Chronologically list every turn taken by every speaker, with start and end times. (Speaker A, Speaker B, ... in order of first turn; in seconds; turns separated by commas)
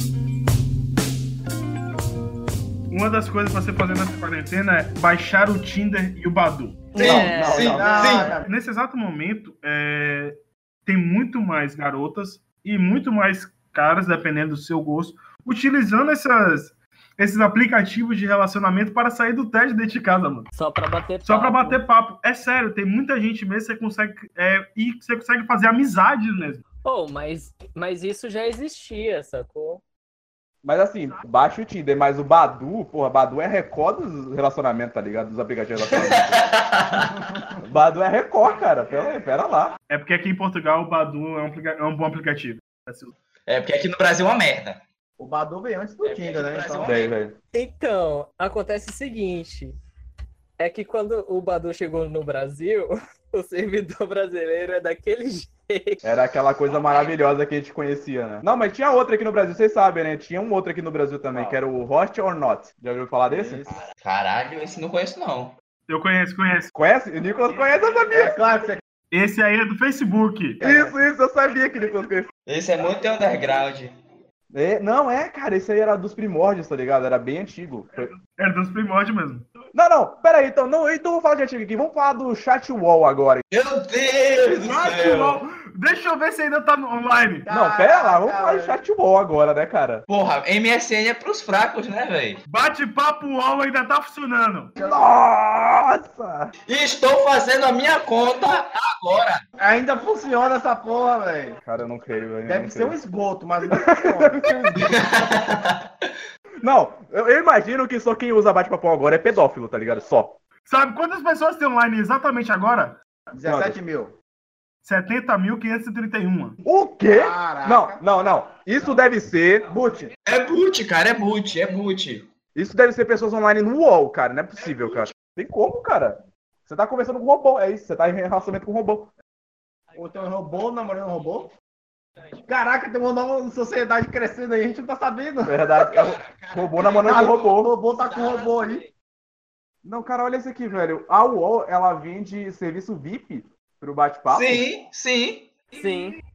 Speaker A: 2.9-7.0, Speaker B: 7.0-8.3, Speaker C: 7.0-8.2, Speaker D: 7.0-7.8, Speaker E: 7.0-8.5, Speaker A: 7.8-20.5, Speaker D: 20.6-21.8, Speaker A: 21.2-26.6, Speaker D: 26.9-29.8, Speaker C: 30.6-36.3, Speaker B: 35.9-37.2, Speaker C: 37.6-39.8, Speaker A: 39.9-43.1, Speaker B: 43.5-44.8, Speaker E: 45.2-47.0, Speaker B: 46.0-47.1, Speaker C: 46.8-47.4, Speaker D: 47.5-49.8, Speaker D: 50.6-56.0, Speaker C: 56.0-63.8, Speaker E: 61.3-61.6, Speaker E: 63.3-63.9, Speaker B: 64.0-65.5, Speaker A: 65.9-66.7, Speaker C: 66.8-68.4, Speaker E: 68.1-68.8, Speaker A: 69.1-70.6, Speaker C: 70.6-72.3, Speaker E: 70.6-71.0, Speaker B: 72.5-73.9, Speaker C: 74.5-78.1, Speaker A: 78.3-79.5, Speaker C: 79.7-83.4, Speaker B: 83.5-85.4, Speaker A: 84.6-87.5, Speaker E: 87.5-88.8, Speaker C: 87.5-90.0, Speaker B: 90.1-92.4, Speaker A: 92.5-94.7, Speaker E: 94.8-95.0, Speaker C: 94.8-96.5, Speaker B: 96.7-99.4, Speaker E: 99.6-101.6, Speaker C: 101.7-103.0, Speaker E: 102.5-105.2, Speaker C: 103.7-105.0, Speaker B: 104.9-105.8, Speaker C: 106.6-110.4, Speaker A: 110.7-113.0, Speaker E: 113.3-114.2, Speaker C: 113.5-113.8, Speaker A: 114.8-116.6, Speaker C: 116.6-119.7, Speaker E: 117.1-118.0, Speaker E: 119.7-120.1, Speaker B: 120.2-122.2, Speaker C: 122.5-129.1, Speaker E: 129.9-131.5, Speaker E: 132.4-135.7, Speaker C: 135.4-137.7, Speaker E: 136.9-138.9, Speaker C: 139.8-144.7, Speaker B: 144.3-145.5, Speaker D: 145.7-146.2